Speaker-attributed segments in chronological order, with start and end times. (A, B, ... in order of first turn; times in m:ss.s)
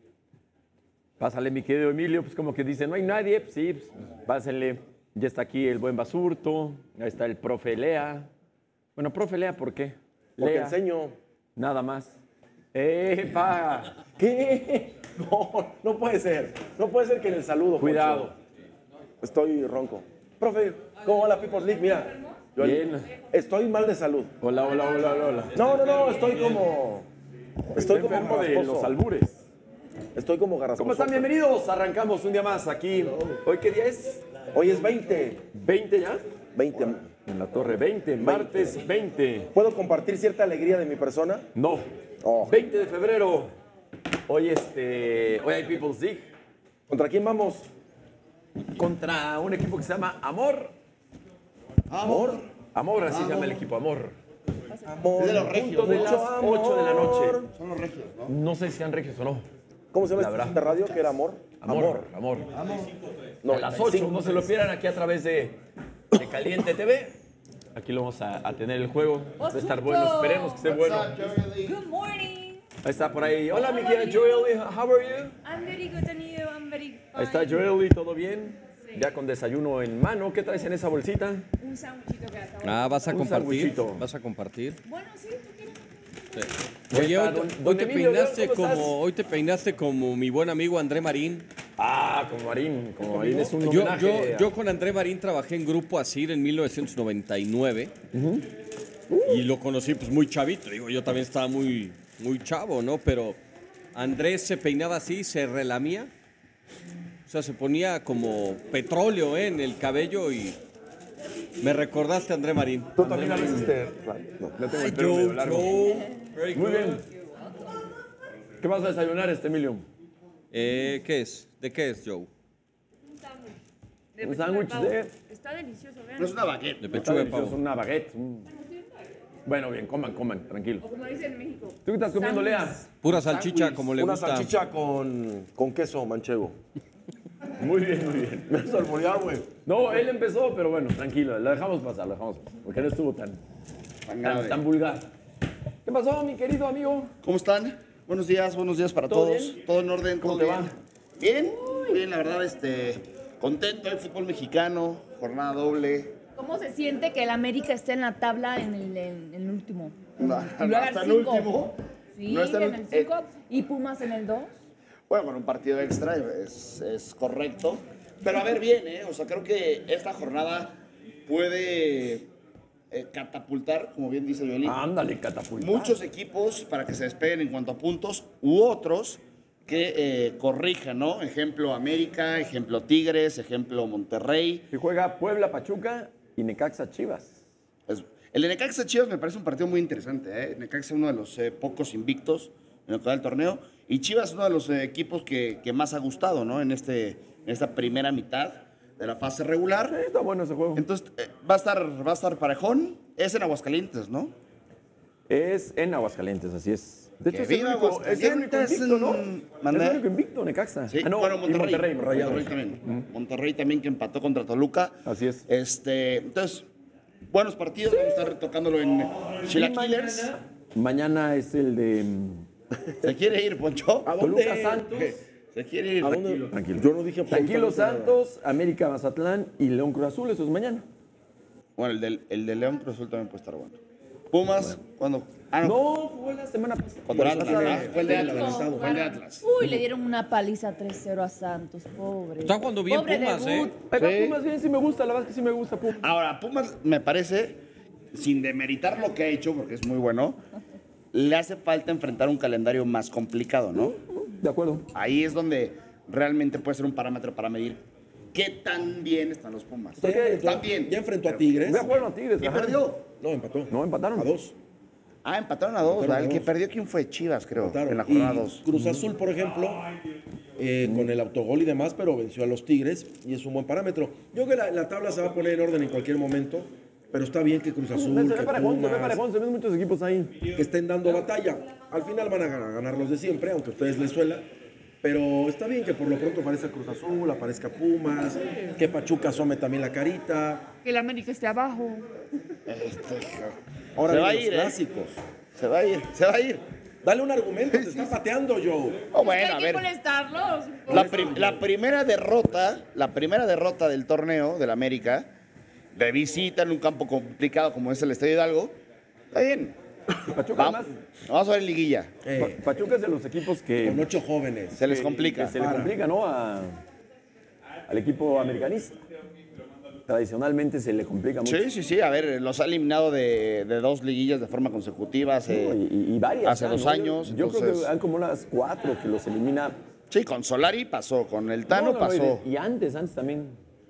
0:01.2-0:08.3 A
0:09.0-0:10.8 A
0:10.4-0:11.1 B
0:11.6-0:12.2 A
0:12.7-0:15.0 A
0:15.1-0:18.3 B
0:17.8-0:18.3 A
0:19.2-0:24.3 B
0:22.6-0:23.1 A
0:24.4-0:27.0 A
0:25.5-0:26.8 B
0:27.7-0:28.9 B
0:27.7-0:29.4 A
0:30.1-0:31.3 B
0:30.8-0:34.2 A
0:34.5-0:35.4 B
0:35.5-0:36.2 A
0:36.5-0:37.0 B
0:37.2-0:39.5 A
0:38.2-0:38.8 B
0:39.5-0:41.4 B
0:41.5-0:41.9 A
0:42.2-0:42.6 B
0:42.4-0:43.5 A
0:44.3-0:46.3 A
0:46.9-0:47.7 B
0:48.8-0:50.7 A
0:51.9-0:52.5 C
0:52.0-0:52.4 B
0:52.7-0:54.1 A
0:53.0-0:53.6 C
0:54.9-0:57.5 B
0:55.2-0:56.3 C
0:55.4-0:57.5 A
0:57.5-0:58.3 C
0:58.3-0:59.4 A
0:59.9-1:02.1 B
1:00.1-1:00.7 A
1:01.6-1:02.5 A
1:02.5-1:02.9 C
1:03.4-1:04.5 B
1:03.5-1:05.6 A
1:06.1-1:07.1 A
1:07.7-1:11.2 A
1:09.4-1:10.7 D
1:10.6-1:11.8 C
1:11.6-1:12.6 D
1:12.8-1:15.4 A
1:13.5-1:14.5 D
1:15.4-1:17.7 D
1:17.1-1:21.4 A
1:21.6-1:23.6 D
1:22.6-1:24.8 E
1:23.1-1:24.0 A
1:24.8-1:25.8 D
1:26.3-1:31.5 E
1:26.9-1:28.9 A
1:31.8-1:34.5 A
1:33.1-1:33.5 B
1:33.6-1:37.9 E
1:38.1-1:38.4 A
1:39.1-1:39.4 A
1:39.3-1:43.4 E
1:43.9-1:46.1 E
1:47.3-1:50.6 E
1:51.6-1:53.4 E
1:53.0-1:54.6 B
1:53.0-1:53.8 A
1:54.5-1:55.8 A
1:54.8-1:57.0 E
1:55.8-1:56.2 D
1:56.5-1:57.0 A
1:58.6-1:59.8 A
2:00.5-2:02.3 E
2:03.2-2:03.5 D
2:04.1-2:06.4 D
2:04.2-2:05.1 A
2:06.2-2:07.0 C
2:06.8-2:07.6 E
2:06.9-2:08.5 A
2:08.5-2:08.8 D
2:09.4-2:10.8 A
2:10.8-2:12.9 D
2:11.8-2:12.8 A
2:13.0-2:14.5 E
2:13.0-2:16.5 B
2:17.6-2:18.6 A
2:18.5-2:20.0 B
2:19.6-2:23.4 A
2:24.1-2:24.6 C
2:24.2-2:25.1 A
2:25.8-2:27.1 A
2:27.2-2:36.1 C
2:29.1-2:29.6 A
2:30.2-2:30.7 A
2:31.6-2:32.0 D
2:36.4-2:44.5 D
2:40.2-2:43.1 C
2:45.1-2:52.3 C
2:52.9-2:54.8 C
2:54.6-2:56.0 A
2:55.6-3:04.7 C
3:04.7-3:07.4 A
3:07.9-3:20.0 C
3:19.9-3:20.8 A
3:20.7-3:24.3 C
3:25.3-3:33.1 A
3:27.3-3:30.0 C
3:30.9-3:36.7 C
3:35.0-3:35.4 A
3:37.3-3:40.4 C
3:39.5-3:42.5 A
3:43.0-3:44.1 C
3:44.0-3:45.2 B
3:44.2-3:45.2 A
3:45.5-3:46.3 C
3:46.0-3:48.2 B
3:46.0-3:50.8 A
3:51.8-3:53.8 C
3:54.3-3:55.8 C
3:55.6-3:57.9 A
3:57.1-3:59.4 C
3:57.1-3:59.1 B
3:57.8-4:03.7 D
3:59.6-3:59.8 A
4:02.4-4:03.7 E
4:03.8-4:06.0 A
4:04.0-4:04.4 C
4:06.0-4:07.6 C
4:08.1-4:10.4 C
4:11.1-4:13.9 C
4:13.7-4:14.9 A
4:14.9-4:23.0 C
4:20.0-4:21.9 B
4:20.0-4:20.4 A
4:21.6-4:22.8 A
4:23.1-4:24.5 B
4:23.7-4:24.3 A
4:25.2-4:28.6 C
4:25.8-4:26.5 B
4:27.6-4:29.8 B
4:28.7-4:29.0 A
4:30.6-4:39.2 B
4:37.9-4:40.4 A
4:40.5-4:44.4 B
4:45.0-4:50.7 B
4:48.4-4:48.7 D
4:50.8-4:52.0 D
4:52.7-4:54.8 C
4:54.0-4:55.2 B
4:55.6-4:56.6 C
4:57.0-4:59.1 B
4:57.7-4:58.1 C
4:59.1-4:59.9 C
4:59.1-5:01.2 D
5:00.9-5:05.3 C
5:00.9-5:01.7 B
5:05.9-5:08.8 C
5:09.3-5:09.8 C
5:10.3-5:11.0 A
5:10.5-5:12.1 C
5:12.2-5:12.7 B
5:12.4-5:14.1 A
5:13.8-5:14.8 B
5:14.7-5:15.6 C
5:14.8-5:16.8 A
5:15.5-5:16.0 B
5:17.9-5:19.0 A
5:20.1-5:21.6 A
5:21.4-5:25.8 C
5:25.5-5:29.8 A
5:26.4-5:27.9 C
5:30.1-5:32.4 C
5:31.7-5:33.6 A